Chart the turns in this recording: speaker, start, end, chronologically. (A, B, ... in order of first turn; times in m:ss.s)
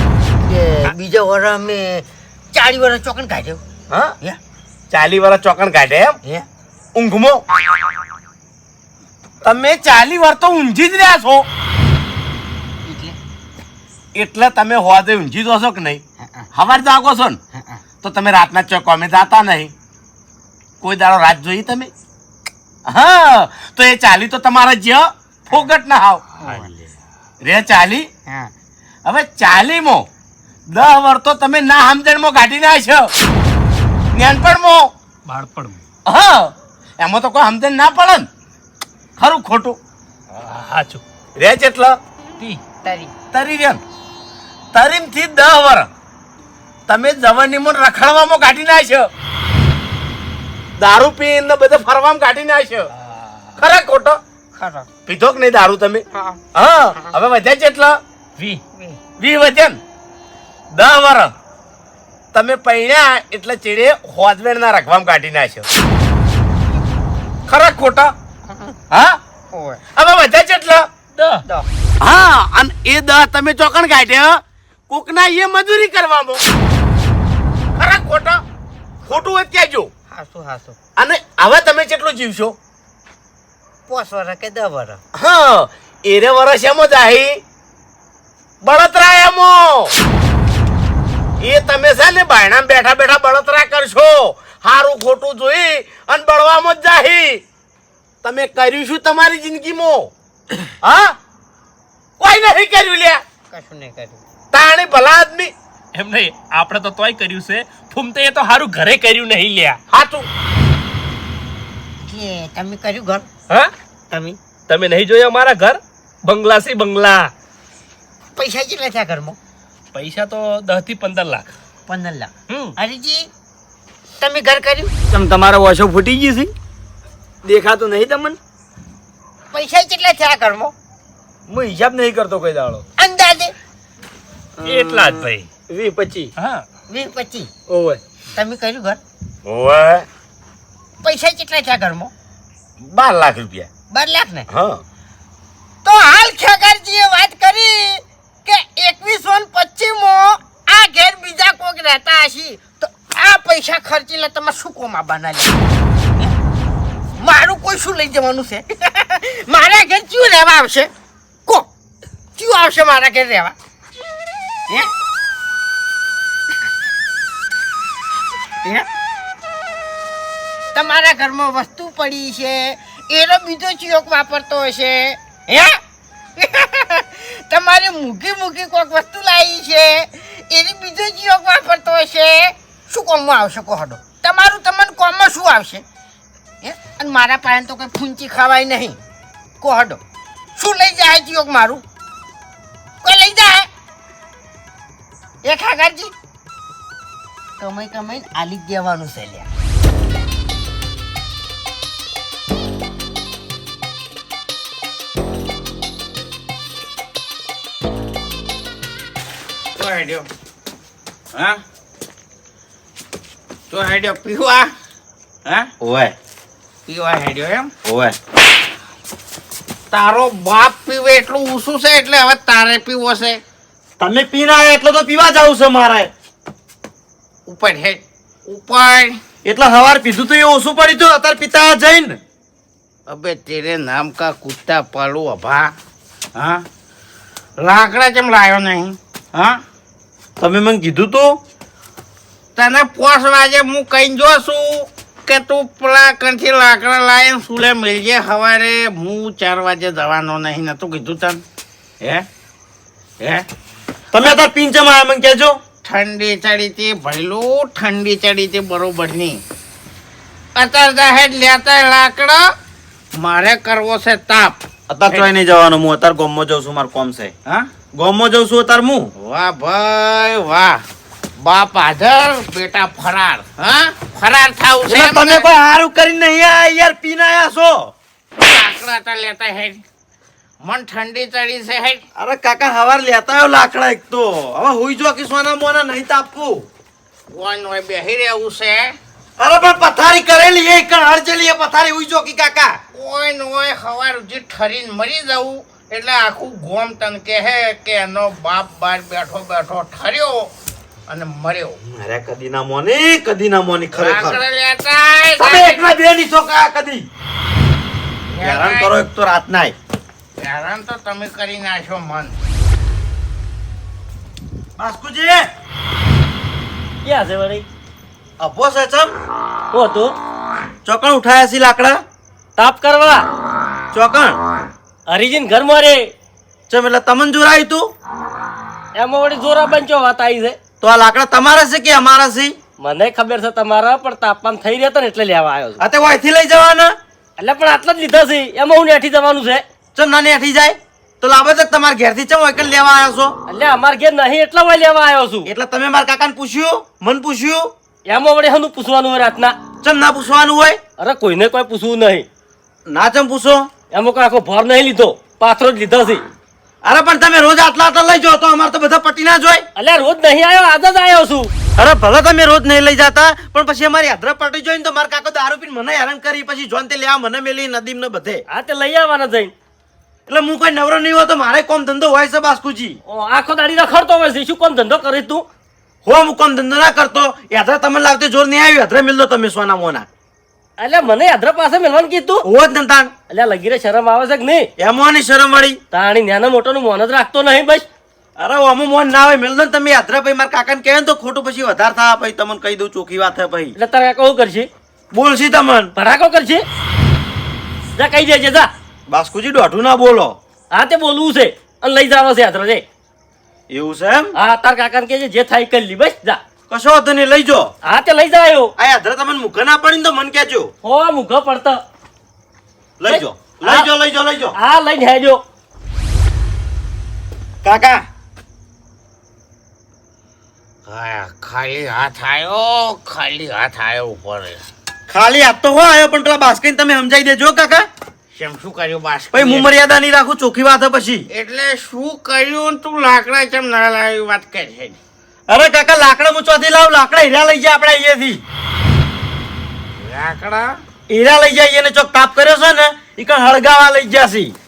0:00.4-0:03.6 A
0:03.9-0:04.1 B
0:04.9-0:06.2 B
0:06.9-0:07.4 B
0:09.4-0:11.5 B
0:12.8-0:13.2 A
0:14.1-0:16.0 B
0:16.2-0:16.5 A
0:16.5-0:17.4 B
0:17.5-0:17.8 A
0:18.0-0:19.7 B
0:20.8-0:21.9 B
0:22.9-0:26.2 B
0:26.4-0:26.7 A
0:26.4-0:26.9 C
0:27.4-0:28.1 B
0:28.3-0:28.5 A
0:29.0-0:30.0 B
0:30.7-0:33.1 B
0:34.1-0:34.9 B
0:35.2-0:35.8 C
0:36.0-0:38.3 B
0:39.2-0:39.8 B
0:40.4-0:41.0 C
0:41.4-0:42.0 B
0:42.8-0:43.1 A
0:43.3-0:43.8 B
0:44.7-0:45.9 B
0:46.9-0:49.1 B
0:50.8-0:52.9 B
0:53.6-0:54.2 B
0:54.5-0:54.9 A
0:55.1-0:56.0 B
0:56.1-0:56.4 A
0:56.5-0:58.0 B
0:58.7-0:59.0 A
0:59.2-0:59.8 B
1:00.7-1:01.3 B
1:02.3-1:05.7 B
1:07.5-1:08.1 B
1:08.9-1:09.2 B
1:09.5-1:09.8 A
1:10.0-1:10.8 B
1:11.1-1:11.4 C
1:12.0-1:14.4 B
1:14.9-1:16.4 B
1:17.8-1:18.3 D
1:19.0-1:19.9 B
1:20.1-1:20.8 A
1:21.0-1:22.6 B
1:23.9-1:25.0 A
1:25.2-1:27.4 B
1:28.6-1:29.9 B
1:31.4-1:37.4 B
1:38.2-1:40.1 B
1:40.8-1:41.1 B
1:42.2-1:43.2 B
1:43.5-1:44.2 A
1:44.5-1:45.5 B
1:45.9-1:49.8 C
1:49.9-1:50.3 B
1:52.0-1:53.3 A
1:54.1-1:54.4 A
1:54.7-1:57.3 C
1:58.4-1:59.4 A
1:59.9-2:01.5 C
2:01.9-2:03.3 A
2:02.5-2:02.7 C
2:04.2-2:04.9 A
2:05.1-2:06.5 E
2:07.4-2:08.4 E
2:09.5-2:10.7 A
2:11.5-2:12.8 E
2:13.0-2:13.5 A
2:14.6-2:15.1 E
2:14.6-2:15.5 C
2:15.7-2:16.3 E
2:16.4-2:16.6 C
2:16.9-2:17.5 A
2:17.7-2:18.0 E
2:18.3-2:19.0 A
2:19.4-2:20.0 B
2:21.0-2:22.1 A
2:22.8-2:23.7 B
2:23.9-2:24.5 A
2:24.5-2:24.8 B
2:25.8-2:35.6 A
2:37.2-2:40.9 A
2:42.4-2:43.6 A
2:50.7-2:55.8 A
2:56.4-3:05.8 A
3:06.6-3:09.0 A
3:09.6-3:10.0 A
3:10.6-3:11.8 A
3:13.0-3:13.7 A
3:15.4-3:16.1 A
3:17.6-3:19.5 A
3:29.7-3:30.3 D
3:31.3-3:31.6 D
3:33.7-3:34.7 D
3:35.8-3:36.1 F
3:36.9-3:37.7 D
3:37.8-3:38.1 F
3:39.9-3:43.4 D
3:44.0-3:46.1 F
3:47.5-3:49.2 D
3:49.4-3:52.2 F
3:53.1-3:55.7 D
3:56.3-3:56.6 D
3:57.6-3:59.6 D
4:00.4-4:01.4 F
4:02.6-4:11.4 D
4:12.0-4:12.2 D
4:13.2-4:13.4 D
4:14.1-4:15.6 F
4:15.8-4:19.4 D
4:20.6-4:22.5 D
4:23.2-4:24.6 D
4:24.9-4:27.3 F
4:28.0-4:29.1 F
4:29.2-4:30.8 D
4:31.4-4:35.5 D
4:34.8-4:37.9 F
4:38.4-4:39.8 D
4:40.6-4:42.0 D
4:42.2-4:46.7 F
4:47.3-4:49.0 D
4:49.4-4:52.8 F
4:52.9-5:00.5 D
5:01.1-5:01.8 D
5:01.8-5:04.4 F
5:04.0-5:05.8 D
5:05.4-5:07.1 F
5:08.3-5:08.9 D
5:08.4-5:09.7 F
5:10.4-5:12.3 D
5:14.8-5:15.5 F
5:17.0-5:17.6 G
5:18.4-5:19.1 F
5:19.7-5:20.1 G
5:20.8-5:22.0 F
5:22.6-5:23.2 G
5:23.9-5:24.4 F
5:25.1-5:26.1 G
5:26.7-5:27.9 F
5:29.0-5:30.6 G
5:30.8-5:32.6 F
5:32.8-5:35.8 G
5:35.8-5:37.0 F
5:37.4-5:39.6 G
5:39.9-5:43.4 F
5:43.5-5:45.5 G
5:45.4-5:47.7 F
5:48.0-5:49.6 G
5:49.8-5:50.8 F
5:51.0-5:52.2 G
5:52.9-5:53.7 F
5:53.9-5:56.2 G
5:56.8-5:59.6 F
5:59.8-6:01.5 G
6:01.8-6:08.4 F
6:08.5-6:09.5 G
6:10.3-6:13.0 F
6:13.1-6:15.5 G
6:16.0-6:20.1 F
6:20.8-6:22.5 G
6:22.4-6:23.1 F
6:23.3-6:24.7 G
6:24.8-6:25.8 F
6:25.9-6:27.9 G
6:28.4-6:33.7 F
6:33.8-6:34.7 G
6:35.1-6:35.9 F
6:36.0-6:36.6 G
6:38.0-6:38.7 G
6:39.1-6:40.4 F
6:40.7-6:42.8 G
6:43.7-6:44.3 F
6:44.3-6:46.4 G
6:46.7-6:47.7 F
6:47.8-6:48.7 G
6:48.8-6:50.7 F
6:50.8-6:51.8 G
6:53.0-6:54.5 F
6:53.0-6:53.8 G
6:54.5-6:55.4 G
6:57.6-6:58.0 F
7:00.9-7:04.6 D
7:05.1-7:07.9 F
7:08.3-7:09.7 D
7:09.3-7:11.2 F
7:11.3-7:15.0 D
7:15.5-7:18.4 F
7:20.0-7:20.7 D
7:21.1-7:24.5 F